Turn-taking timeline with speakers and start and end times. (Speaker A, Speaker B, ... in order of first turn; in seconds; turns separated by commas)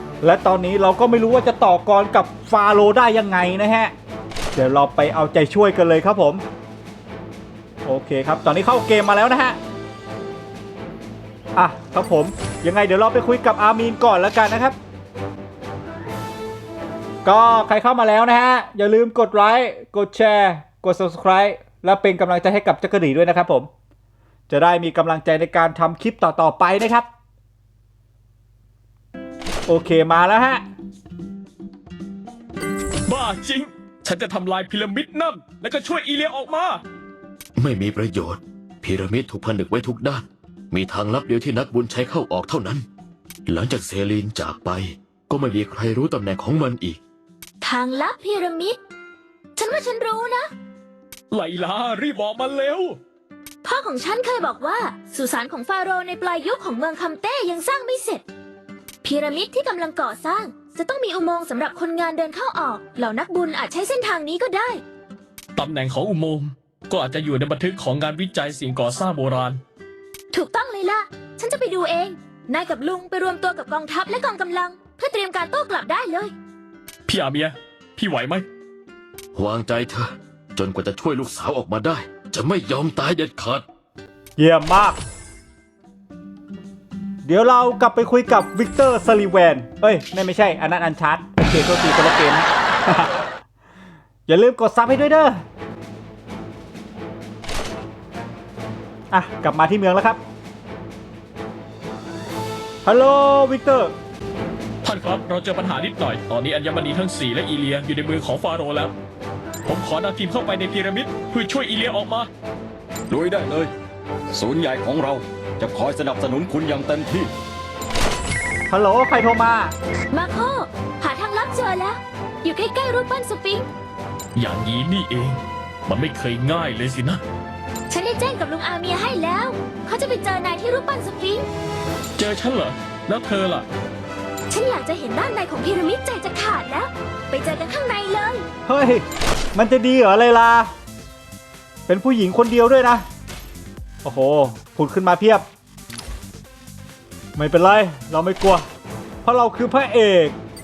Speaker A: 0.2-3.9, Speaker A: 4.5-6.4, Speaker A: 7.8-9.6, Speaker A: 11.6-14.8, Speaker A: 17.2-23.7, Speaker A: 24.5-27.1, Speaker A: 29.7-30.6, Speaker B: 33.1-36.8, Speaker C: 37.6-42.8, Speaker C: 43.5-47.0, Speaker D: 47.6-48.8, Speaker D: 49.5-50.5, Speaker B: 51.3-53.0, Speaker D: 53.6-58.2, Speaker D: 59.0-64.8, Speaker B: 65.5-69.6, Speaker D: 70.3-76.3, Speaker B: 77.1-78.4, Speaker C: 79.3-83.6, Speaker A: 84.4-85.0, Speaker A: 87.2-93.2, Speaker A: 94.3-95.4, Speaker A: 99.1-100.2, Speaker A: 102.8-103.9, Speaker B: 104.8-108.9, Speaker B: 109.6-112.3, Speaker E: 113.1-113.7, Speaker E: 114.3-117.3, Speaker A: 118.7-119.7, Speaker D: 120.1-123.7, Speaker B: 124.3-127.2, Speaker D: 127.9-131.5, Speaker B: 132.2-133.6, Speaker D: 134.5-138.5, Speaker A: 138.7-140.7, Speaker A: 141.9-143.1, Speaker A: 144.0-145.4, Speaker A: 147.3-148.6, Speaker A: 149.2-150.4